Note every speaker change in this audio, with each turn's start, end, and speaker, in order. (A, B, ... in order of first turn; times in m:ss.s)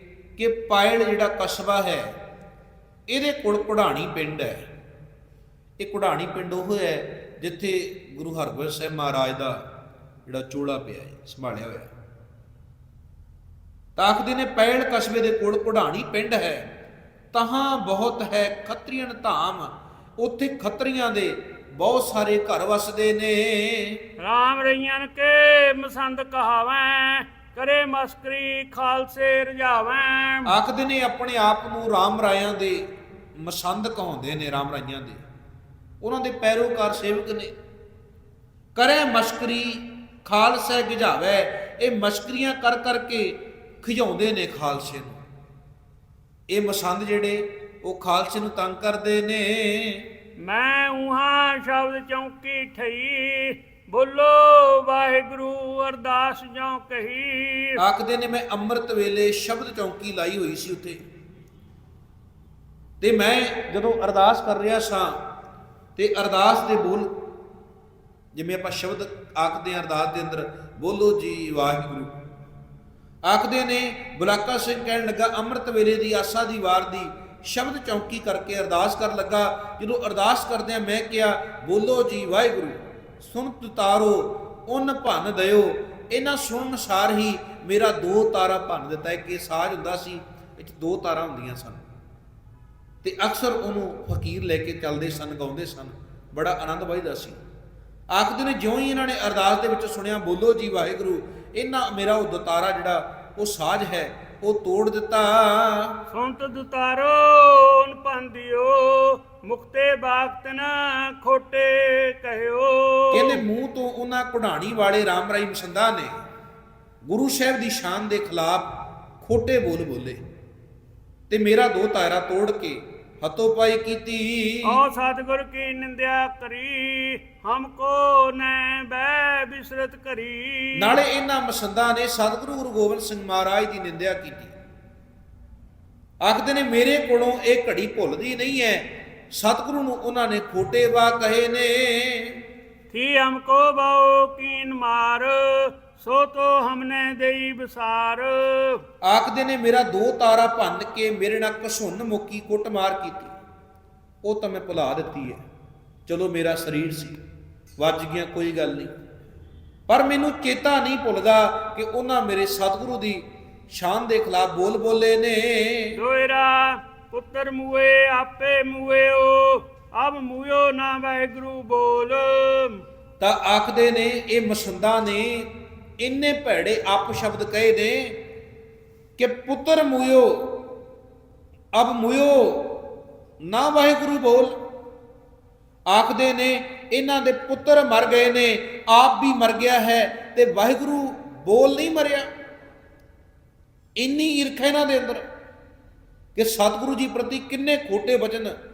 0:00.4-0:02.1 A
0:03.1-0:04.7 A
0:05.8-0:09.6 A
0:10.3-0:11.9 A
0:14.0-0:16.6 A
0:17.3-0:24.0 A
0:24.2-0:30.5 B
0:30.5-0:32.8 A
0:33.4-0:35.2 A
0:36.0-0:37.5 A
0:38.8-0:45.2 A
0:46.5-0:50.1 A
0:50.4-0:57.8 B
0:57.8-1:01.0 A
1:03.0-1:05.2 A
1:06.0-1:07.2 A
1:08.3-1:12.2 A
1:13.3-1:31.8 A
1:33.0-1:37.4 A
1:38.1-1:46.0 A
1:46.1-1:53.4 B
1:53.1-1:56.2 A
1:57.0-2:00.2 A
2:01.3-2:04.8 A
2:04.6-2:11.0 B
2:10.8-2:14.5 A
2:16.2-2:22.4 A
2:22.9-2:28.8 B
2:29.0-2:33.4 A
2:34.2-2:35.4 A
2:36.1-2:37.2 A
2:37.8-2:38.9 A
2:39.9-2:46.0 A
2:45.9-2:52.8 B
2:53.2-2:55.5 A
2:56.0-2:58.2 A
2:59.2-3:00.6 A
3:01.7-3:02.9 A
3:03.4-3:04.6 A
3:05.9-3:12.3 A
3:14.0-3:15.2 A
3:16.4-3:18.5 A